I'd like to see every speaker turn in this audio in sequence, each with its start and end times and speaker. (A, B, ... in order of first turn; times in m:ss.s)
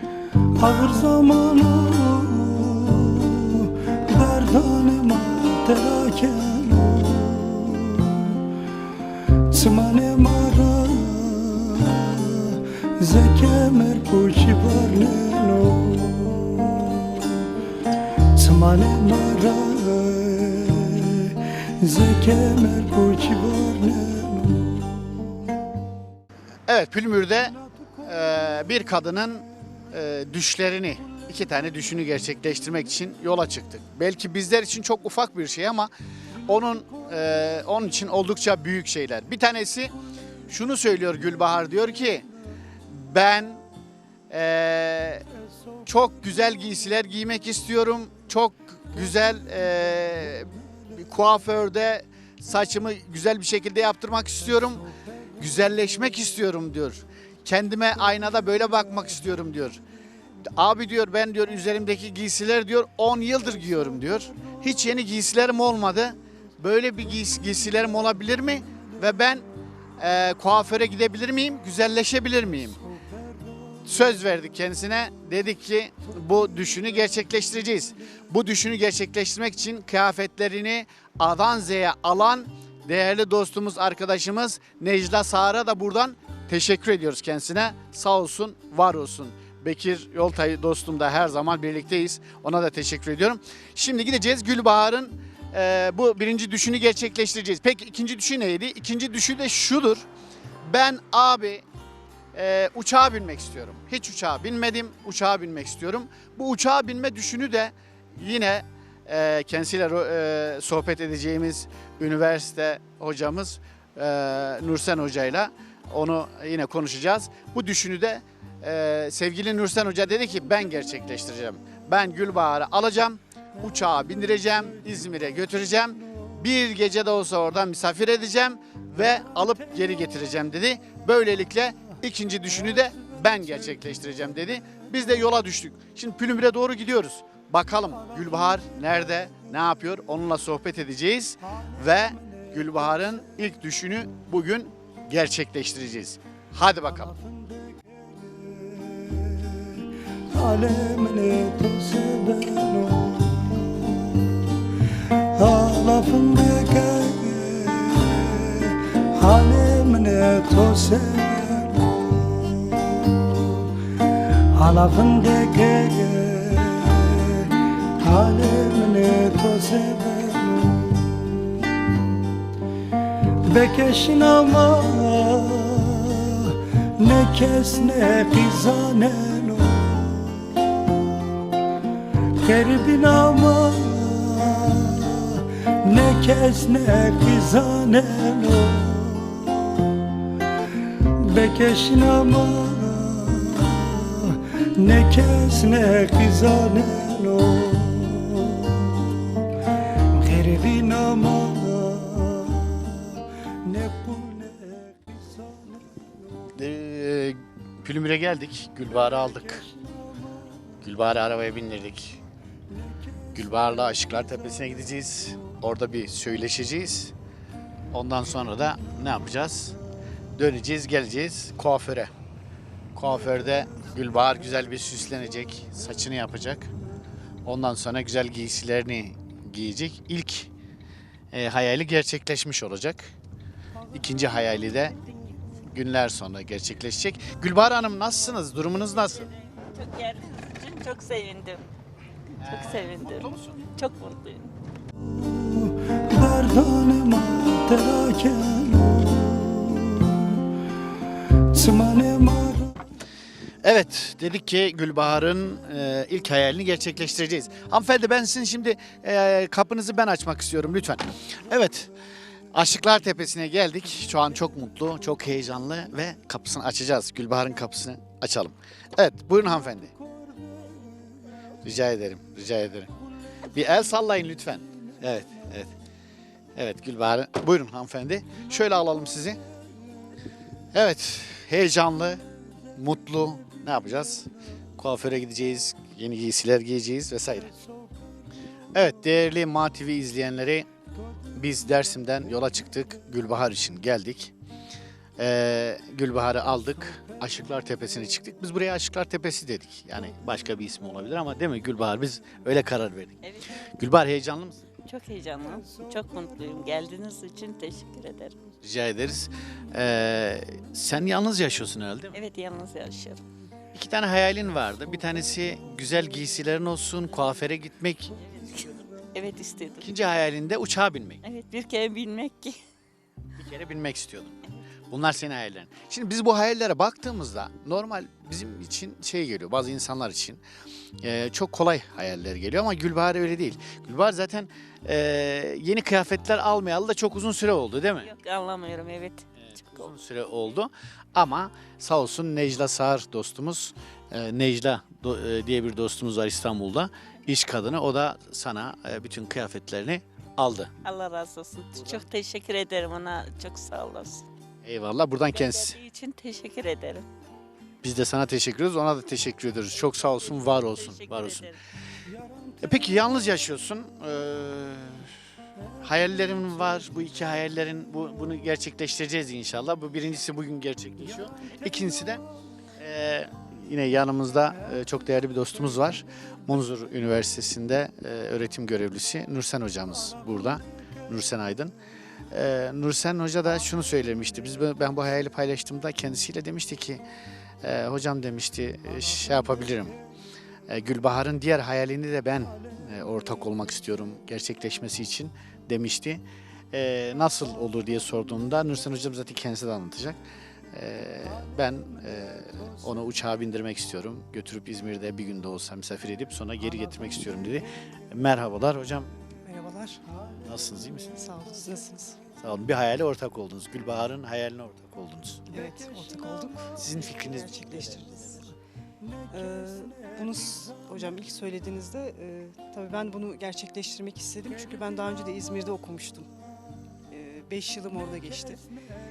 0:00.6-0:08.4 A
0:09.5-0:17.4 A
0:18.4-0:25.3 A
0:26.7-0:35.9 B
0:36.4-0:39.9 B
0:40.5-0:42.3 B
0:42.9-0:43.6 B
0:44.3-0:45.2 B
0:45.8-0:54.9 B
0:55.4-0:59.8 B
1:00.5-1:09.4 B
1:10.0-1:12.8 B
1:13.8-1:40.0 B
1:40.6-1:41.6 B
1:42.3-2:27.2 B
2:27.6-2:34.4 A
2:35.3-2:43.6 A
2:44.5-2:51.5 A
2:53.4-3:00.4 A
3:02.4-3:09.7 A
3:11.2-3:19.4 A
3:20.1-3:25.9 A
3:26.6-3:29.6 B
3:30.8-3:32.2 B
3:33.3-3:37.1 B
3:37.9-3:39.8 B
3:40.4-3:42.1 B
3:42.9-3:46.7 B
3:47.4-3:50.5 B
3:51.3-3:53.1 B
3:53.9-3:55.0 B
3:55.7-3:59.3 B
3:59.6-4:01.6 C
4:02.4-4:03.6 B
4:02.4-4:04.5 C
4:05.1-4:10.4 A
4:11.5-4:12.7 A
4:13.6-4:21.9 B
4:22.5-4:29.9 B
4:31.6-4:32.9 B
4:33.5-4:35.7 B
4:36.5-4:39.4 B
4:40.7-4:42.2 B
4:42.8-4:47.6 B
4:48.7-4:50.7 B
4:51.3-4:54.3 B
4:55.2-5:03.2 B
5:03.8-5:04.6 B
5:04.8-5:08.3 C
5:08.6-5:12.2 B
5:12.1-5:13.2 C
5:13.7-5:18.2 B
5:18.2-5:19.9 C
5:19.8-5:21.2 B
5:21.2-5:22.6 C
5:23.4-5:30.4 B
5:31.0-5:38.1 B
5:38.0-5:39.9 C
5:39.4-5:50.7 B
5:50.8-5:54.2 C
5:51.7-5:52.0 B
5:54.6-5:55.8 B
5:55.3-5:57.1 C
5:57.8-6:01.5 B
6:00.2-6:01.6 C
6:02.6-6:05.2 B
6:05.8-6:12.2 B
6:12.8-6:21.7 B
6:22.3-6:27.0 B
6:27.6-6:30.0 B
6:30.7-6:40.2 B
6:40.7-6:49.1 B
6:49.4-6:50.0 D
6:50.4-6:51.2 B
6:51.1-6:52.2 D
6:52.4-6:55.5 B
6:55.5-6:58.5 D
6:56.8-6:58.2 B
6:59.3-7:06.3 D
7:07.1-7:08.6 D